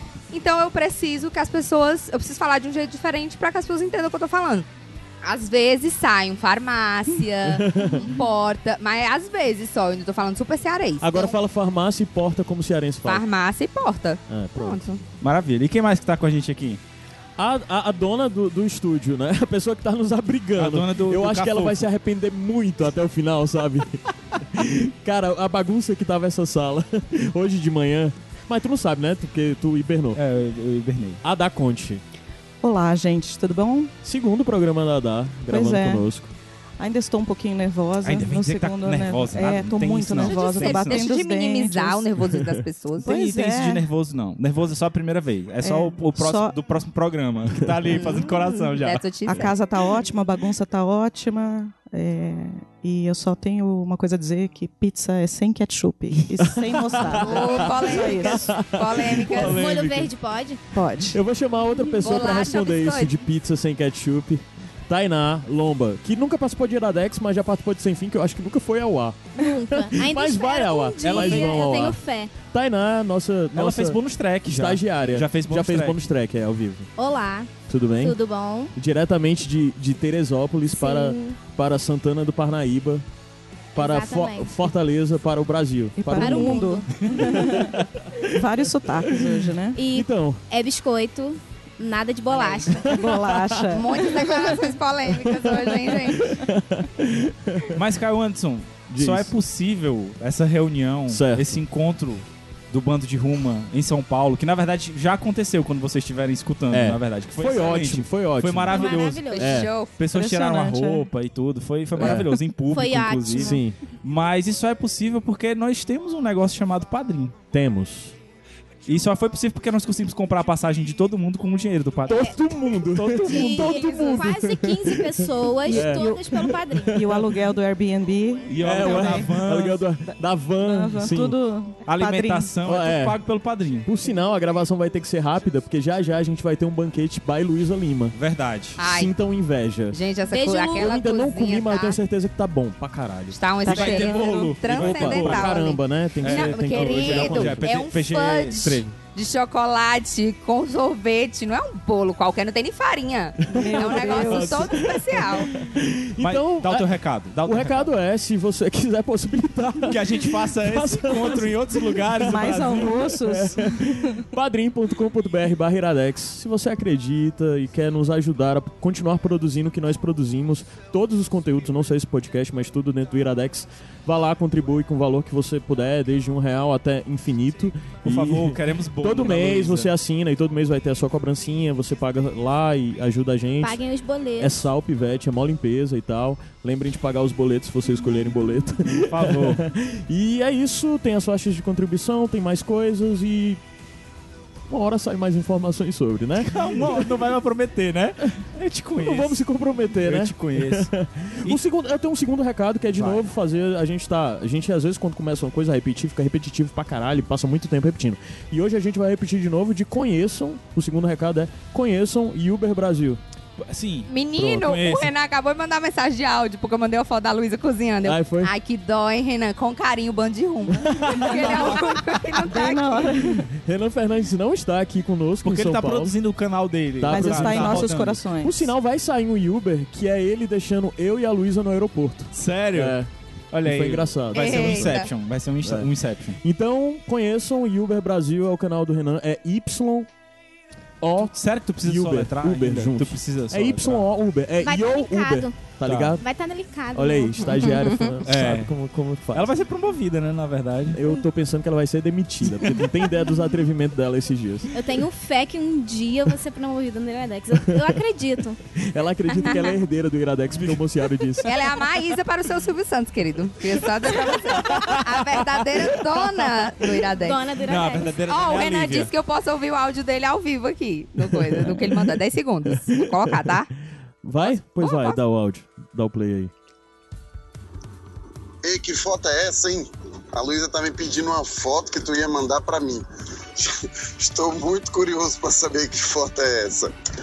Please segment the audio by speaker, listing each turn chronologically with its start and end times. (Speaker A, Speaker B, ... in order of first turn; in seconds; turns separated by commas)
Speaker A: 0.3-4.7, Speaker A: 5.2-11.3, Speaker B: 7.5-8.1, Speaker B: 11.0-13.2, Speaker A: 13.1-15.0, Speaker B: 14.3-14.8, Speaker C: 15.2-16.8, Speaker B: 17.4-30.2, Speaker C: 20.6-21.9, Speaker C: 30.1-31.2, Speaker B: 31.2-32.0, Speaker D: 32.6-33.9, Speaker B: 34.0-36.3, Speaker D: 35.5-36.0, Speaker D: 36.8-42.1, Speaker C: 38.0-41.1, Speaker A: 40.2-43.1, Speaker C: 43.0-49.0, Speaker D: 43.0-43.9, Speaker D: 45.6-46.6, Speaker A: 47.9-49.5, Speaker D: 49.3-58.5, Speaker B: 56.3-60.1, Speaker A: 57.2-59.6, Speaker E: 59.5-60.6, Speaker D: 60.7-61.2, Speaker B: 61.1-76.9, Speaker E: 61.8-62.1, Speaker A: 62.0-63.2, Speaker E: 69.4-72.3, Speaker C: 71.0-71.9, Speaker C: 73.5-76.0, Speaker E: 77.0-78.7, Speaker B: 77.7-78.2, Speaker B: 78.7-83.1, Speaker E: 80.7-81.4, Speaker E: 83.8-84.7, Speaker B: 83.8-88.4, Speaker D: 86.0-87.7, Speaker E: 86.2-86.9, Speaker D: 88.3-89.8, Speaker E: 89.8-93.1, Speaker B: 89.9-90.4, Speaker A: 92.3-92.9, Speaker D: 92.9-94.0, Speaker B: 93.1-93.6, Speaker A: 93.7-96.3, Speaker B: 94.1-94.5, Speaker B: 95.2-97.8, Speaker C: 97.8-109.3, Speaker B: 98.9-99.3, Speaker B: 101.1-101.6, Speaker B: 106.7-109.7, Speaker E: 108.7-109.7, Speaker A: 109.1-109.9, Speaker C: 110.0-117.3, Speaker D: 110.1-111.1, Speaker B: 112.0-112.4, Speaker E: 112.7-113.6, Speaker B: 113.3-113.8, Speaker B: 117.5-118.2, Speaker C: 118.9-124.1, Speaker B: 122.1-127.3, Speaker E: 123.1-127.0, Speaker D: 125.9-126.2, Speaker D: 126.9-129.3, Speaker C: 128.5-129.8, Speaker B: 128.6-131.3, Speaker D: 130.6-132.6, Speaker C: 131.9-133.9, Speaker B: 132.7-133.2, Speaker B: 133.9-138.2, Speaker C: 138.2-138.8, Speaker A: 138.8-139.1, Speaker B: 138.8-140.0, Speaker A: 139.9-142.0, Speaker E: 140.3-140.9, Speaker B: 140.6-143.4, Speaker C: 143.3-145.6, Speaker A: 143.3-155.5, Speaker D: 143.7-144.6, Speaker B: 144.7-147.8, Speaker C: 146.2-148.8, Speaker B: 148.5-148.9, Speaker B: 153.5-156.9, Speaker D: 153.6-154.7, Speaker C: 156.2-157.9, Speaker B: 157.4-183.8, Speaker C: 159.9-163.0, Speaker D: 162.3-164.2, Speaker C: 178.1-179.9, Speaker E: 183.6-184.7, Speaker B: 184.4-193.6, Speaker C: 189.1-189.6, Speaker B: 194.7-197.3, Speaker C: 196.5-199.4, Speaker B: 199.0-213.2, Speaker C: 200.0-200.9, Speaker C: 202.9-203.2, Speaker C: 213.6-215.1, Speaker A: 214.1-223.1, Speaker B: 218.0-218.5, Speaker B: 220.9-221.7, Speaker D: 221.2-223.4, Speaker B: 223.1-226.2, Speaker C: 225.4-228.2, Speaker B: 227.0-233.1, Speaker D: 227.1-228.7, Speaker C: 232.3-233.0, Speaker C: 233.5-236.4, Speaker B: 233.7-235.1, Speaker A: 234.3-235.1, Speaker B: 235.6-235.9, Speaker B: 236.4-240.1, Speaker B: 241.0-246.2, Speaker C: 241.3-244.0, Speaker E: 244.6-247.8, Speaker C: 245.8-246.2, Speaker B: 246.9-249.5, Speaker A: 247.5-248.2, Speaker C: 248.2-248.7, Speaker C: 249.3-251.0, Speaker B: 250.9-254.7, Speaker E: 254.7-258.6, Speaker B: 258.8-261.5, Speaker E: 259.3-259.8, Speaker A: 261.4-267.5, Speaker B: 264.7-266.2, Speaker E: 267.2-268.2, Speaker C: 267.6-269.1, Speaker A: 268.3-273.7, Speaker B: 272.9-273.5, Speaker B: 274.2-276.5, Speaker F: 278.6-286.9